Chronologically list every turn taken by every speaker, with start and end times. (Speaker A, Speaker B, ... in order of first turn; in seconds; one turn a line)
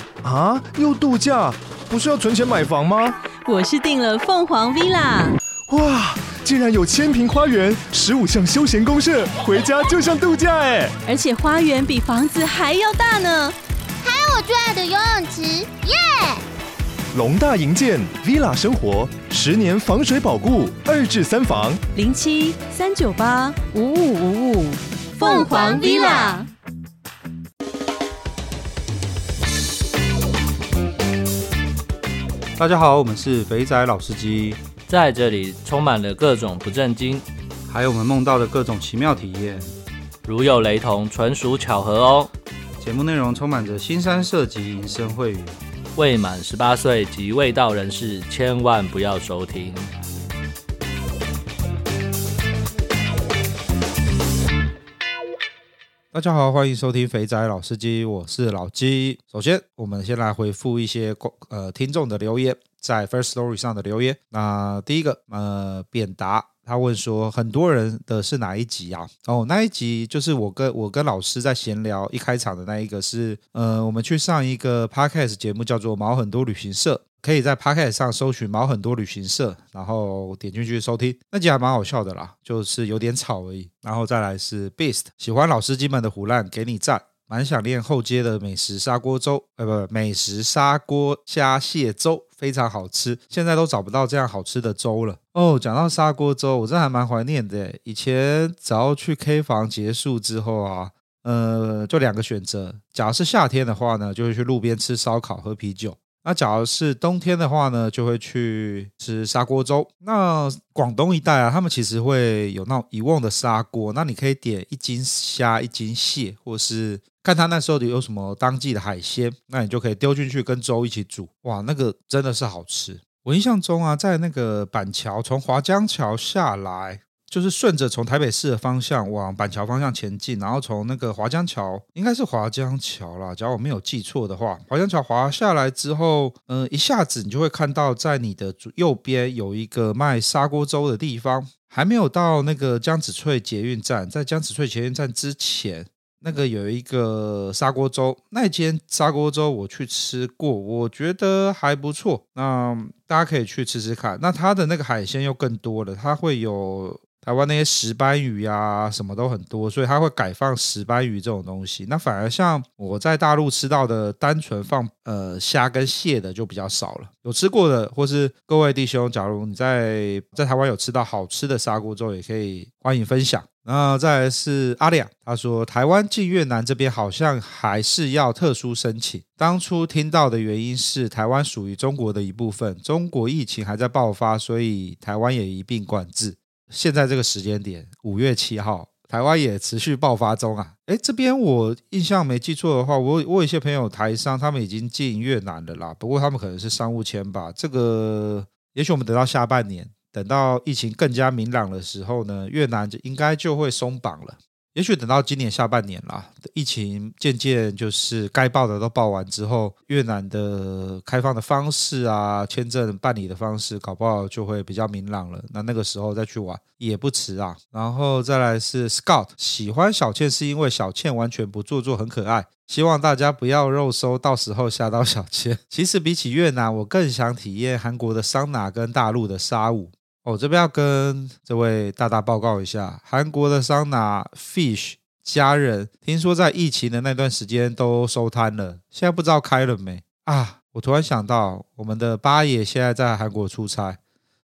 Speaker A: 0.2-3.2
Speaker B: 3.5-5.4
Speaker A: 5.7-11.0
Speaker B: 11.1-13.6
Speaker C: 14.0-16.4
Speaker A: 17.1-21.8
Speaker B: 21.9-26.5
Speaker C: 25.2-26.4
Speaker D: 32.6-34.6
Speaker E: 34.9-37.3
Speaker D: 37.7-39.7
Speaker E: 40.2-42.3
Speaker D: 42.8-45.6
Speaker E: 46.0-49.9
Speaker D: 56.1-244.0